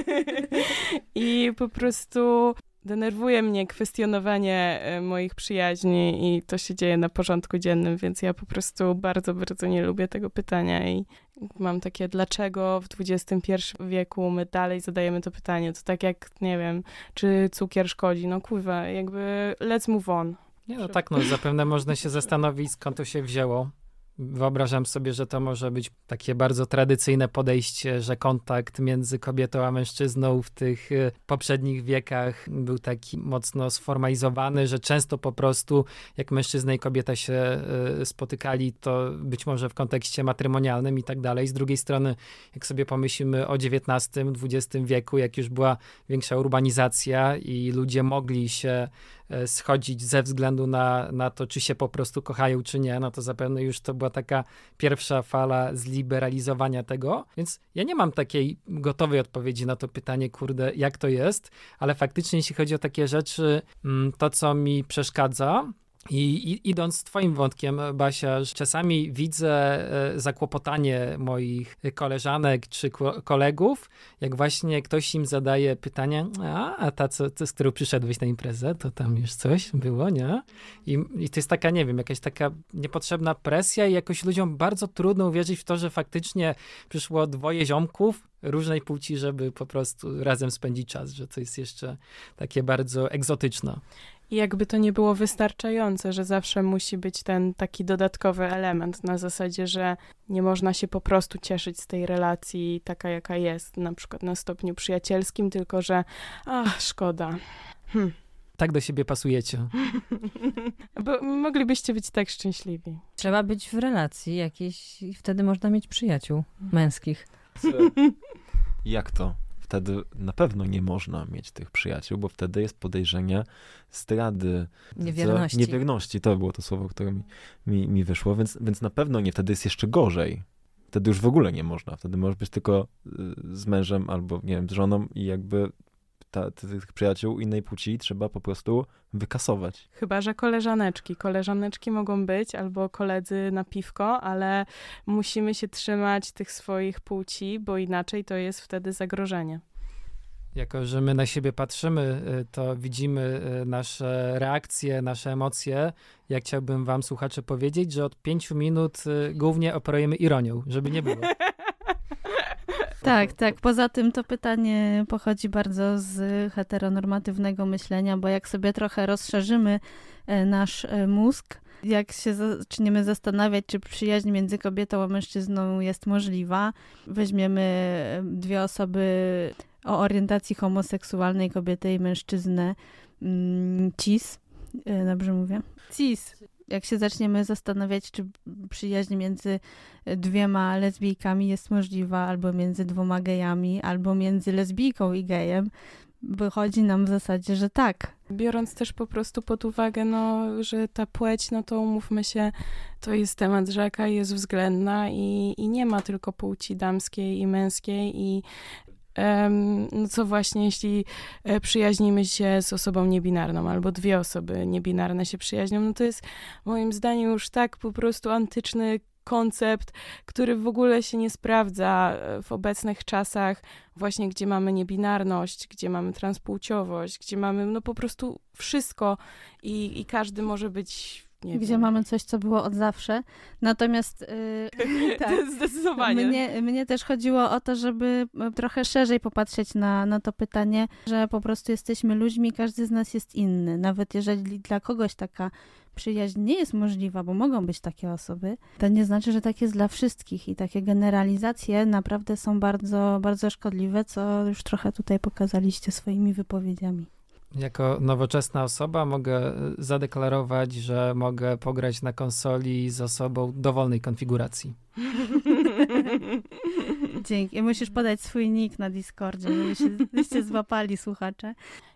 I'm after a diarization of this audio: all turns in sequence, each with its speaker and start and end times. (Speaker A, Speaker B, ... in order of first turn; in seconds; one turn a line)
Speaker A: 0.3-21.3
Speaker B: 20.7-93.8
Speaker A: 94.3-107.4
Speaker B: 108.6-109.7
Speaker A: 111.0-113.0
Speaker C: 113.2-117.3
Speaker D: 117.6-118.0
Speaker D: 118.8-135.7
Speaker C: 125.0-125.8
Speaker D: 136.3-139.8
Speaker A: 139.9-149.6
Speaker B: 150.5-161.3
Speaker E: 163.0-195.7
Speaker E: 196.2-198.1
Speaker A: 198.3-208.4
Speaker A: 209.1-231.9
Speaker E: 231.5-235.4
Speaker A: 234.9-236.4
Speaker E: 236.0-257.1
Speaker B: 257.5-264.7
Speaker E: 267.2-271.6